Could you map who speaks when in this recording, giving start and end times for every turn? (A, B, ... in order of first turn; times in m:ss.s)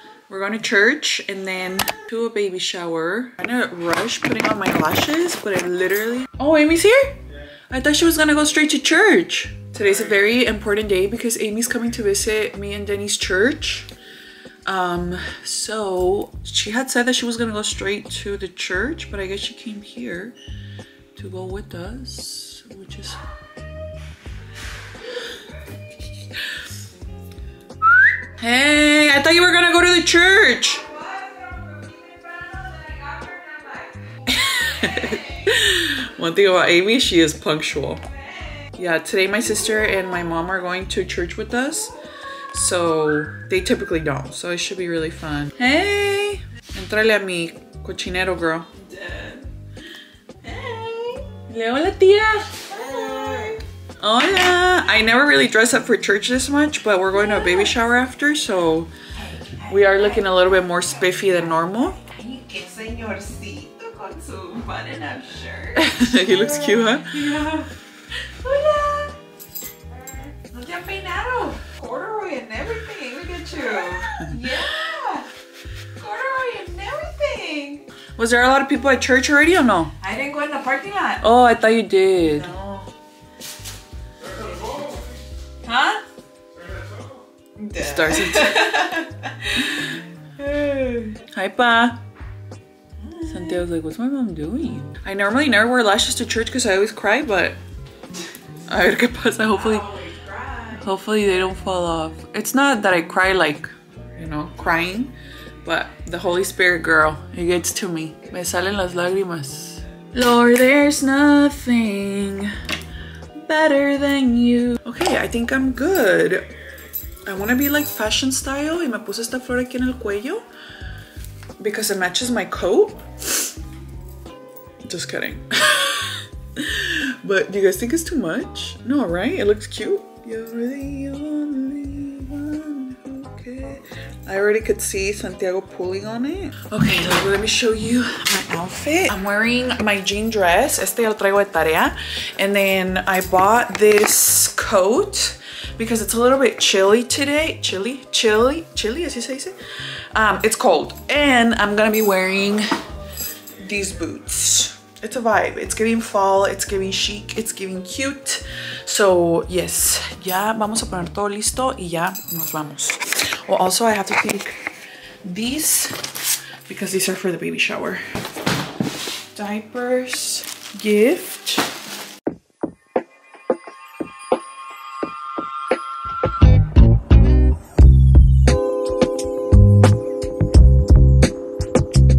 0:00.3-0:13.9 A
0:14.6-0:20.4 A
0:21.1-0:23.2 A
0:28.2-0:30.9 A
0:31.0-0:33.9 B
0:34.2-0:38.0 A
0:38.7-0:41.9 A
0:42.5-0:48.9 A
0:49.0-0:49.4 B
0:50.4-0:51.3 B
0:51.4-0:58.9 A
0:52.8-0:53.6 B
0:59.3-0:59.7 B
0:59.5-1:02.0 A
1:02.0-1:05.8 B
1:05.7-1:07.4 A
1:07.1-1:07.7 B
1:08.2-1:09.1 B
1:10.3-1:15.3 B
1:14.0-1:14.4 A
1:16.0-1:17.8 B
1:18.0-1:20.1 A
1:20.0-1:21.2 B
1:21.2-1:22.5 A
1:22.5-1:22.9 B
1:25.7-1:26.0 A
1:27.6-1:29.2 B
1:27.7-1:29.0 A
1:29.6-1:32.0 A
1:33.2-1:37.6 A
1:38.7-1:40.0 A
1:40.0-1:40.5 B
1:40.6-1:52.6 A
1:53.4-1:56.5 A
1:57.2-2:00.5 A
2:01.6-2:03.5 A
2:04.8-2:29.6 A
2:30.1-2:32.7 A
2:33.6-2:44.7 A
2:45.2-2:46.0 A
2:46.6-2:48.0 A
2:49.3-2:51.7 A